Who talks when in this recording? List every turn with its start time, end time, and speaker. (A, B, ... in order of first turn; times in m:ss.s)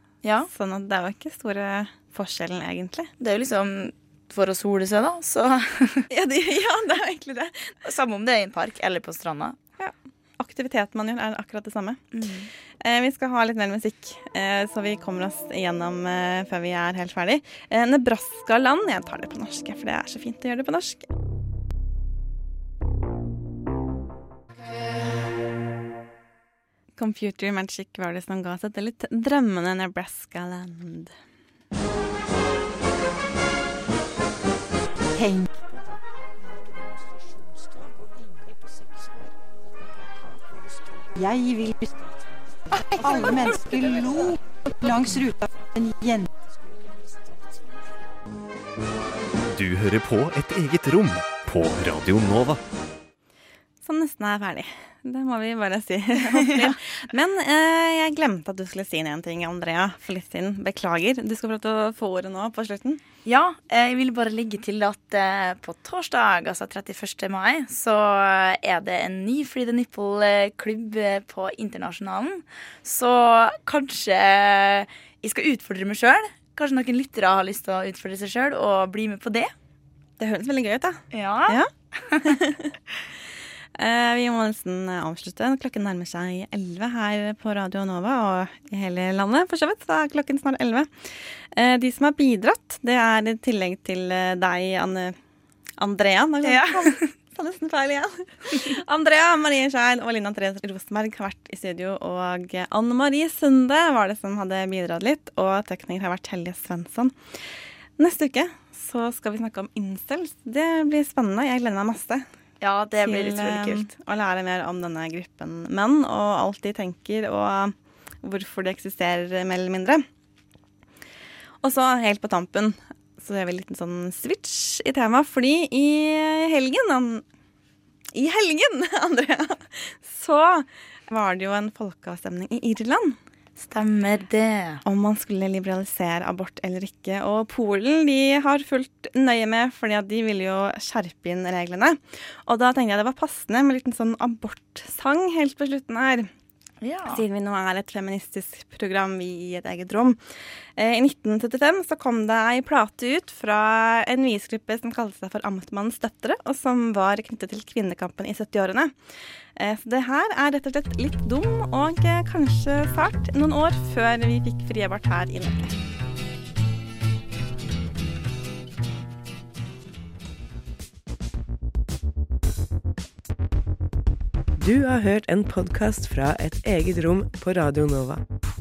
0:00.2-0:00.5 A
0:00.5-0:03.1 B
0:03.2-0:06.0 A
0:06.1-0:07.7 B
0:07.8-0:09.6 A
0:09.8-0:12.0 B
0:12.1-0:12.5 A
0:12.8-0:21.0 B
0:27.0-0:31.1 B
0:35.1-0:35.5 C
0:41.2-0:41.9 C
0:42.9-0:46.2 C
0:49.5-0:52.6 D
0:53.8-1:03.0 B
0:56.3-0:56.7 A
1:03.2-1:19.5 A
1:20.2-1:21.7 B
1:21.1-1:22.4 A
1:22.2-1:22.7 B
1:23.8-1:35.2 B
1:35.8-1:47.4 B
1:36.4-1:37.0 A
1:48.0-1:52.2 B
1:52.6-1:53.9 A
1:53.0-2:00.0 B
2:01.6-2:07.2 B
2:08.1-2:13.2 B
2:13.6-2:14.8 A
2:14.8-2:26.3 B
2:26.8-2:27.2 A
2:27.1-2:30.2 B
2:30.8-2:38.9 B
2:39.6-2:45.7 B
2:54.6-2:58.2 E